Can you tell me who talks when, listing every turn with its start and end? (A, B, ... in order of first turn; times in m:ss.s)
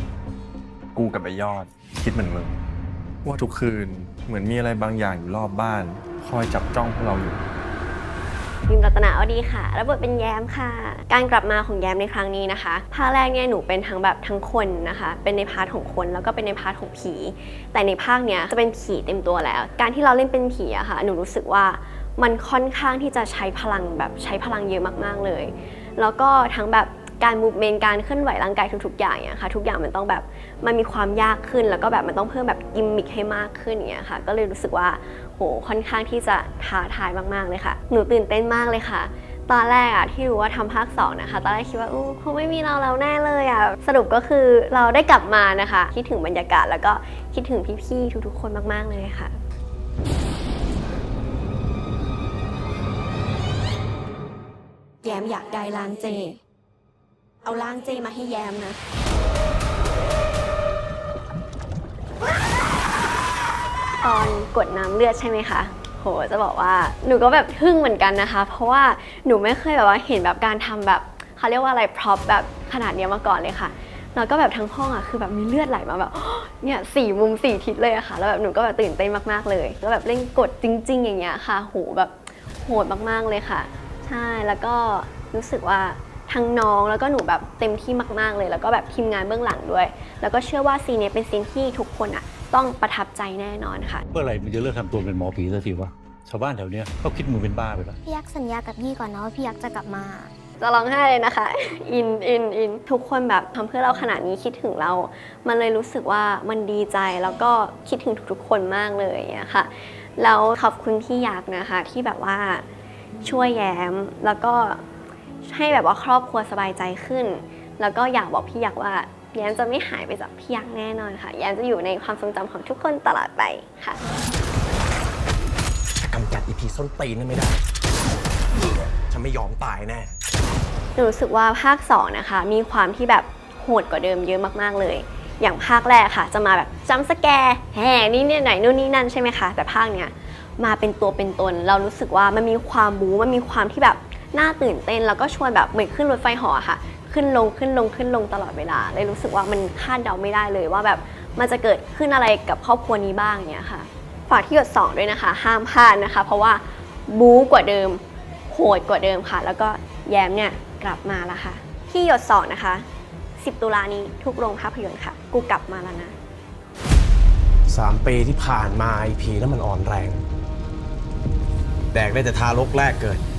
0:00.9-0:02.6 A
0:03.2-0:07.4 A
0:08.7-0:49.4 B
0:55.0-0:56.4 B
0:57.4-0:58.8 B
1:04.0-1:34.0 B
1:34.1-1:38.0 C
1:38.1-1:40.3 D
1:40.6-1:52.6 B
1:53.2-1:54.8 B
1:55.4-2:04.0 B
2:06.1-2:07.6 E
2:09.1-2:10.1 E
2:11.0-2:42.9 B
2:43.4-2:46.2 B
2:47.7-2:50.2 E
2:51.9-2:53.2 E